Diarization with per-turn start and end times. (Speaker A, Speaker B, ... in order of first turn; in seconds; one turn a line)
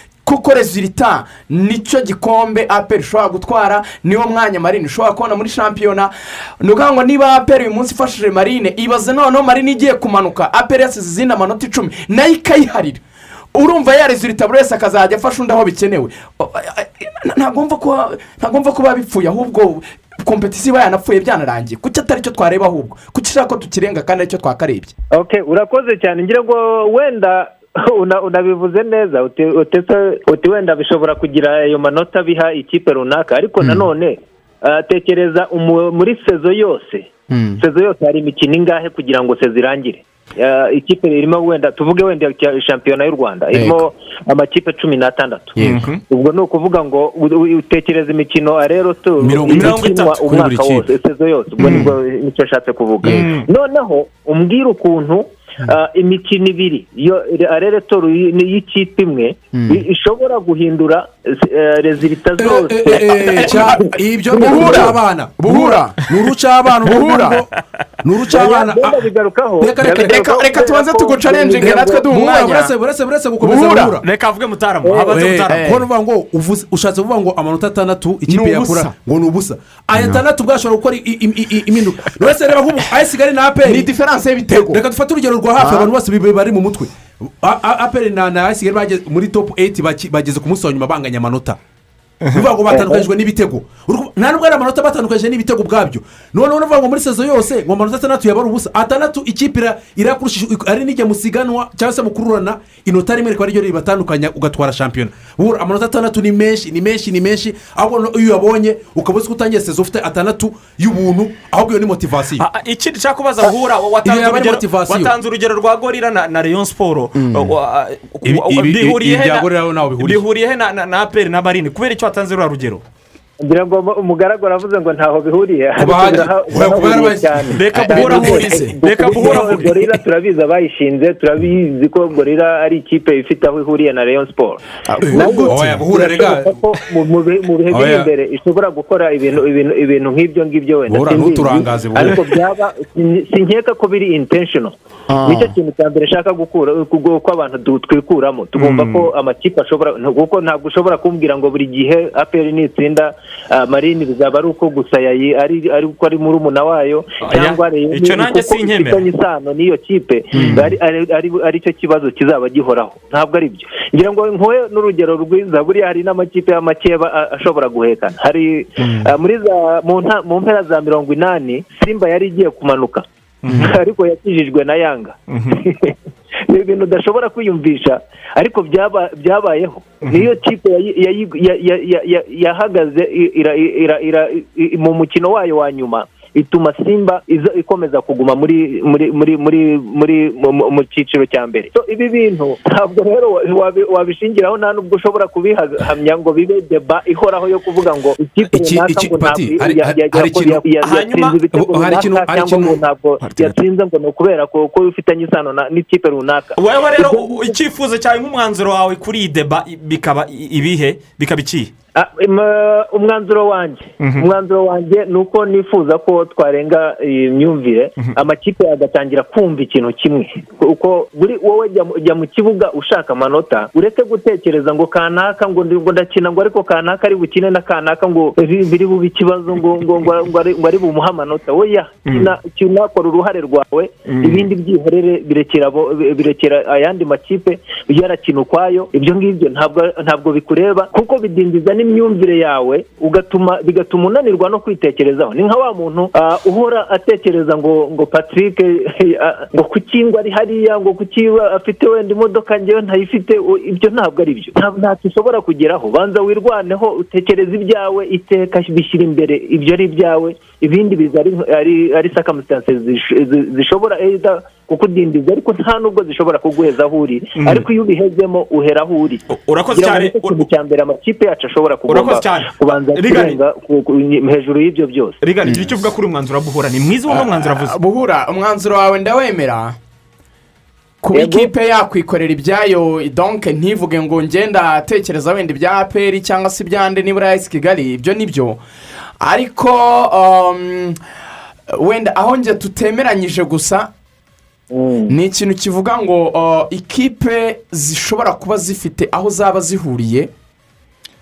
Speaker A: 0.2-13.0
Speaker A: 13.5-24.9
Speaker B: 25.1-64.8
Speaker A: 33.6-33.9
Speaker A: 37.3-37.6
Speaker A: 43.5-43.8
Speaker A: 45.6-45.9
Speaker C: 45.6-46.0
Speaker D: 49.2-50.9
Speaker C: 49.5-50.0
Speaker C: 51.6-51.9
Speaker A: 53.0-53.3
Speaker C: 53.1-53.5
Speaker A: 59.5-59.8
Speaker D: 62.4-67.5
Speaker A: 64.3-66.0
Speaker A: 66.8-67.4
Speaker D: 68.0-69.1
Speaker B: 68.3-72.0
Speaker D: 69.6-70.2
Speaker A: 70.0-72.7
Speaker D: 71.6-74.0
Speaker A: 73.4-74.0
Speaker C: 74.0-75.6
Speaker B: 74.8-75.2
Speaker D: 75.1-83.9
Speaker A: 75.5-75.9
Speaker A: 78.3-78.9
Speaker A: 80.0-80.2
Speaker A: 83.6-84.8
Speaker D: 84.5-91.6
Speaker A: 85.6-85.9
Speaker D: 92.3-112.5
Speaker C: 112.4-122.8
Speaker D: 114.0-115.1
Speaker A: 117.2-117.5
Speaker D: 118.2-120.2
Speaker B: 123.4-134.6
Speaker D: 125.8-127.5
Speaker C: 127.5-129.9
Speaker A: 127.7-128.8
Speaker A: 134.9-135.8
Speaker D: 135.1-136.6
Speaker B: 135.2-175.9
Speaker D: 137.7-138.1
Speaker D: 140.9-142.4
Speaker A: 145.1-145.6
Speaker C: 148.6-149.1
Speaker C: 157.2-159.0
Speaker A: 160.3-160.7
Speaker C: 160.4-160.7
Speaker A: 168.8-169.1
Speaker C: 173.4-173.8
Speaker C: 175.3-175.6
Speaker B: 176.5-207.5
Speaker D: 198.5-200.6
Speaker C: 200.8-201.4
Speaker D: 201.5-202.8
Speaker C: 203.2-203.5
Speaker C: 206.6-211.7
Speaker B: 212.0-275.2
Speaker C: 214.0-214.3
Speaker C: 232.1-232.3
Speaker C: 234.1-234.5
Speaker C: 267.4-267.7
Speaker C: 269.3-270.5
Speaker C: 271.9-273.4
Speaker C: 275.2-277.8
Speaker A: 275.5-275.7
Speaker A: 277.1-279.8
Speaker A: 281.0-288.6
Speaker B: 281.1-281.5
Speaker A: 289.2-291.0
Speaker A: 291.7-293.9
Speaker B: 294.7-295.1
Speaker A: 295.1-300.3